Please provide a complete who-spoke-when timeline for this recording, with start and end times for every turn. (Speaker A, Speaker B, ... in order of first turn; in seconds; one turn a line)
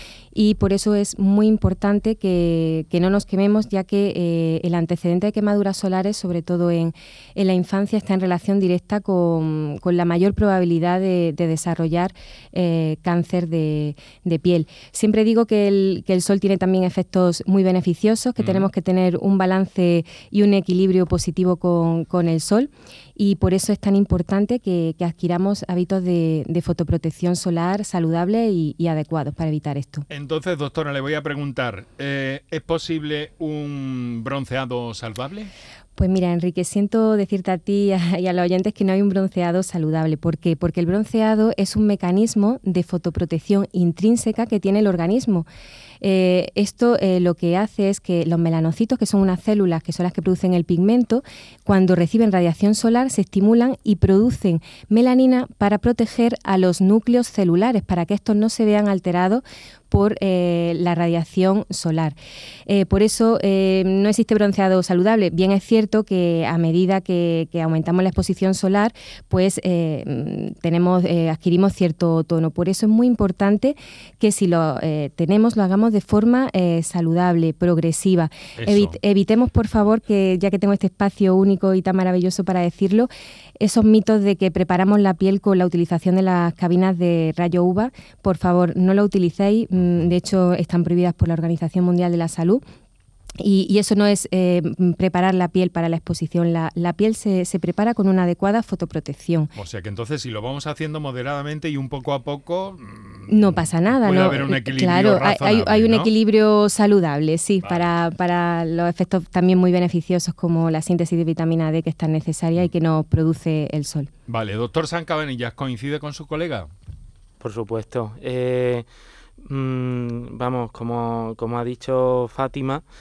Speaker A: 0.3-30.1
Speaker B: 18.4-18.7
Speaker B: 30.1-35.5
Speaker A: 36.0-45.5
Speaker A: 46.0-62.1
Speaker A: 62.7-92.6
Speaker B: 78.6-79.0
Speaker A: 93.4-99.5
Speaker B: 99.5-106.1
Speaker A: 103.3-114.1
Speaker B: 107.6-107.9
Speaker B: 114.3-116.7
Speaker C: 117.4-118.9
Speaker C: 119.4-122.8